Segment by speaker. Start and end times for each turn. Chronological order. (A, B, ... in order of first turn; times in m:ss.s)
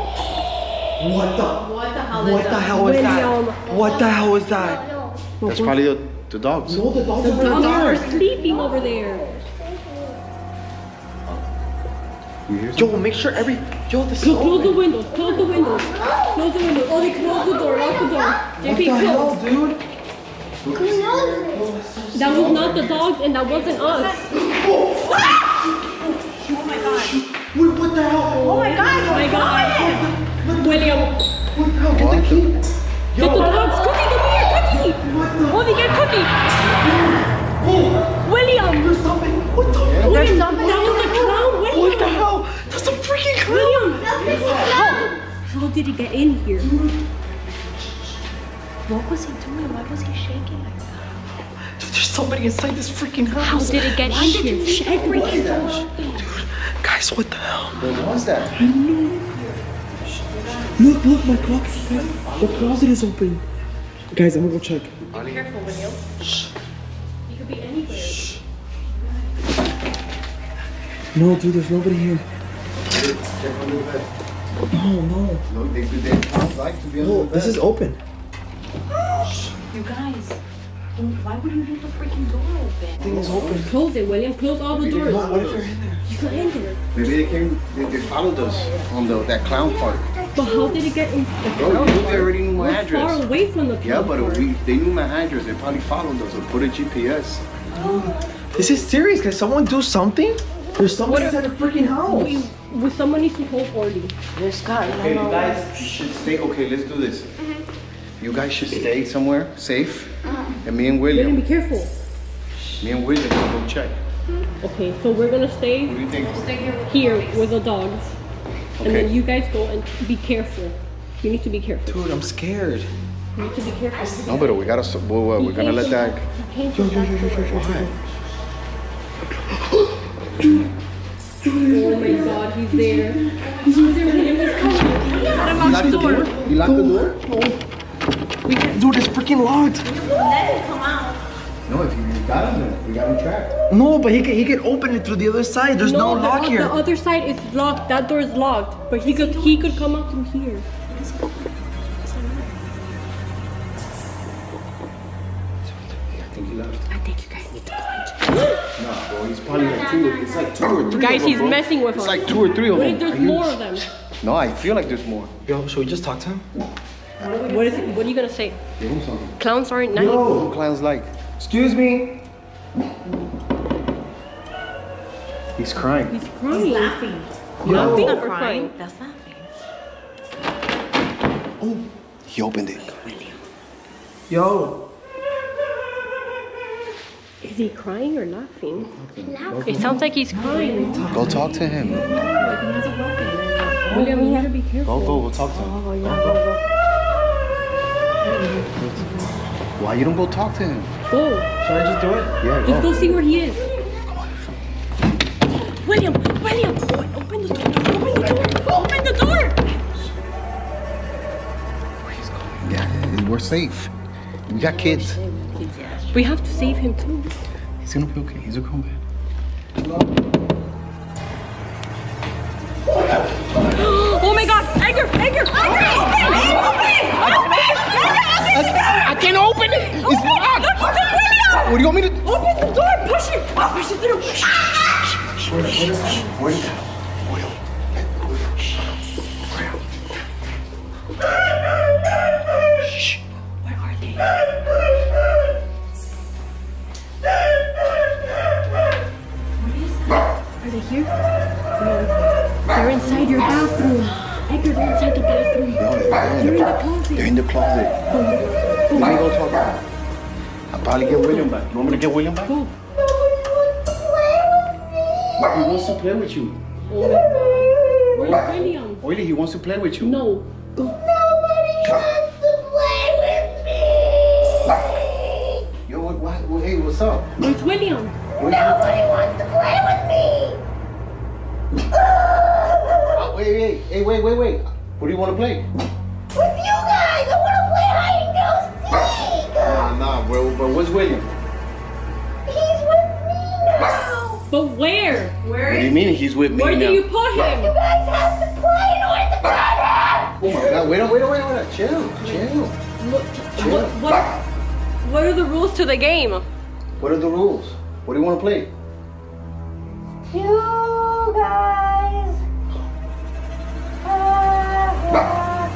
0:01.0-0:04.8 A
0:01.5-0:03.4 B
0:02.7-0:03.6 C
0:03.6-0:05.2 D
0:05.4-0:05.8 C
0:05.4-0:06.8 E
0:06.6-0:08.2 A
0:07.2-0:09.2 C
0:07.4-0:08.3 B
0:08.2-0:10.2 D
0:12.5-0:13.0 E
0:12.7-0:14.8 A
0:14.2-0:19.4 C
0:15.1-0:16.4 D
0:17.2-0:18.3 D
0:18.6-0:19.8 A
0:20.6-0:21.6 E
0:20.7-0:21.7 D
0:21.4-0:22.9 A
0:22.1-0:24.3 C
0:22.2-0:23.0 E
0:23.4-0:24.3 B
0:24.3-0:33.8 A
0:26.4-0:27.2 B
0:28.3-0:29.8 C
0:28.4-0:30.1 B
0:30.6-0:31.1 C
0:31.9-0:32.5 E
0:33.2-0:36.3 C
0:33.5-0:33.8 B
0:34.8-0:36.0 A
0:36.6-0:38.2 A
0:38.2-0:38.9 C
0:38.8-0:45.1 A
0:39.7-0:40.4 E
0:40.0-0:42.2 C
0:40.0-0:41.2 B
0:43.5-0:46.7 C
0:44.0-0:45.1 D
0:44.2-0:45.0 B
0:46.6-0:47.0 A
0:48.9-0:51.0 B
0:51.7-0:57.8 A
0:53.4-0:55.8 C
0:54.0-0:56.2 B
0:54.8-0:55.4 D
0:54.9-0:55.7 E
0:57.7-0:58.5 E
0:58.5-0:59.3 A
0:59.3-0:59.6 B
1:00.3-1:01.8 B
1:00.7-1:03.4 A
1:01.8-1:02.8 E
1:04.1-1:04.9 A
1:05.0-1:05.5 E
1:05.1-1:06.0 C
1:07.3-1:08.3 C
1:07.9-1:08.4 A
1:11.1-1:12.2 A
1:12.9-1:14.1 E
1:14.7-1:15.4 A
1:15.5-1:17.6 E
1:17.0-1:18.0 A
1:18.9-1:20.4 B
1:21.0-1:23.0 B
1:23.0-1:23.7 E
1:23.0-1:23.7 A
1:23.6-1:25.3 C
1:24.7-1:25.8 E
1:25.0-1:26.1 A
1:26.1-1:26.7 C
1:26.1-1:26.7 B
1:26.9-1:30.0 E
1:28.4-1:28.6 B
1:29.5-1:30.9 D
1:30.3-1:34.5 C
1:31.6-1:33.2 E
1:33.8-1:37.4 E
1:37.7-1:42.5 A
1:37.8-1:38.3 D
1:41.1-1:41.4 C
1:42.0-1:44.1 C
1:44.4-1:45.8 A
1:44.6-1:45.0 B
1:44.9-1:47.3 E
1:48.2-1:51.4 E
1:51.1-1:51.9 C
1:52.8-1:54.0 E
1:54.6-1:56.0 C
1:55.8-1:56.5 E
1:56.1-1:57.5 B
1:56.8-1:58.1 C
1:58.8-1:59.1 E
1:58.8-2:02.1 C
2:01.8-2:02.9 A
2:03.3-2:04.5 C
2:04.2-2:06.2 E
2:05.4-2:07.6 C
2:06.7-2:08.0 A
2:07.4-2:07.9 E
2:11.4-2:17.6 A
2:11.6-2:16.3 C
2:13.6-2:15.6 B
2:15.5-2:17.1 E
2:18.5-2:18.8 B
2:18.7-2:19.9 A
2:19.8-2:21.2 B
2:21.7-2:23.5 E
2:23.7-2:26.8 A
2:25.8-2:30.6 C
2:29.0-2:29.8 B
2:32.1-2:32.5 C
2:36.1-2:36.9 E
2:36.9-2:38.4 C
2:38.8-2:45.3 E
2:39.5-2:40.6 D
2:40.9-2:43.8 C
2:45.4-2:46.4 A
2:47.2-2:47.9 B
2:47.4-2:48.6 C
2:48.8-2:49.4 E
2:49.4-2:50.3 C
2:49.9-2:50.5 A
2:50.2-2:51.1 E
2:51.4-2:52.1 A
2:55.6-2:56.1 E
2:56.1-2:57.0 C
2:56.5-2:59.5 B
2:57.6-2:58.2 A
2:57.6-2:58.0 E
2:57.8-2:58.7 C
3:02.3-3:03.1 E
3:04.3-3:04.8 A
3:07.4-3:08.9 C
3:08.7-3:10.1 E
3:09.2-3:09.8 D
3:09.6-3:11.1 C
3:10.3-3:12.3 A
3:10.4-3:14.4 B
3:11.1-3:12.1 E
3:13.9-3:15.2 C
3:14.8-3:16.4 E
3:15.5-3:16.6 B
3:18.8-3:19.0 E
3:19.8-3:20.9 E
3:21.1-3:21.5 C
3:21.6-3:22.3 A
3:22.4-3:23.2 E
3:22.6-3:23.6 C
3:25.7-3:29.6 C
3:32.0-3:32.6 A
3:32.6-3:33.9 E
3:34.5-3:35.2 E
3:35.1-3:36.1 B
3:36.1-3:37.3 C
3:37.8-3:39.0 E
3:43.7-3:49.1 C
3:47.2-3:50.9 E
3:49.9-3:54.8 C
3:51.5-3:52.2 E
3:55.5-3:56.2 C
3:55.5-3:56.3 A
3:55.5-3:56.8 E
3:58.0-3:58.5 E
4:03.6-4:04.2 C
4:09.6-4:10.2 B
4:10.6-4:11.1 C
4:11.8-4:12.1 C
4:12.7-4:17.3 C
4:12.8-4:13.9 E
4:15.8-4:18.0 E
4:18.1-4:19.2 C
4:18.9-4:19.8 E
4:20.7-4:22.6 E
4:21.1-4:22.7 C
4:23.0-4:25.5 D
4:25.4-4:26.6 E
4:26.9-4:29.0 C
4:27.7-4:28.2 D
4:28.2-4:30.2 E
4:30.0-4:30.8 C
4:30.8-4:35.7 D
4:35.8-4:37.3 E
4:37.4-4:38.1 C
4:38.3-4:40.6 D
4:38.4-4:39.0 E
4:42.2-4:43.1 D
4:43.1-4:45.6 E
4:46.3-4:49.9 D
4:49.6-4:51.3 E
4:52.4-4:54.4 D
4:54.5-4:55.4 C
4:55.4-4:56.0 B
4:55.6-4:57.0 E
4:56.5-4:57.7 C
4:57.3-5:00.3 D
5:00.4-5:02.7 E
5:03.0-5:04.3 C
5:03.6-5:04.0 E
5:05.0-5:06.4 C
5:07.0-5:08.7 E
5:10.3-5:12.4 B
5:14.0-5:15.0 B
5:14.2-5:15.6 D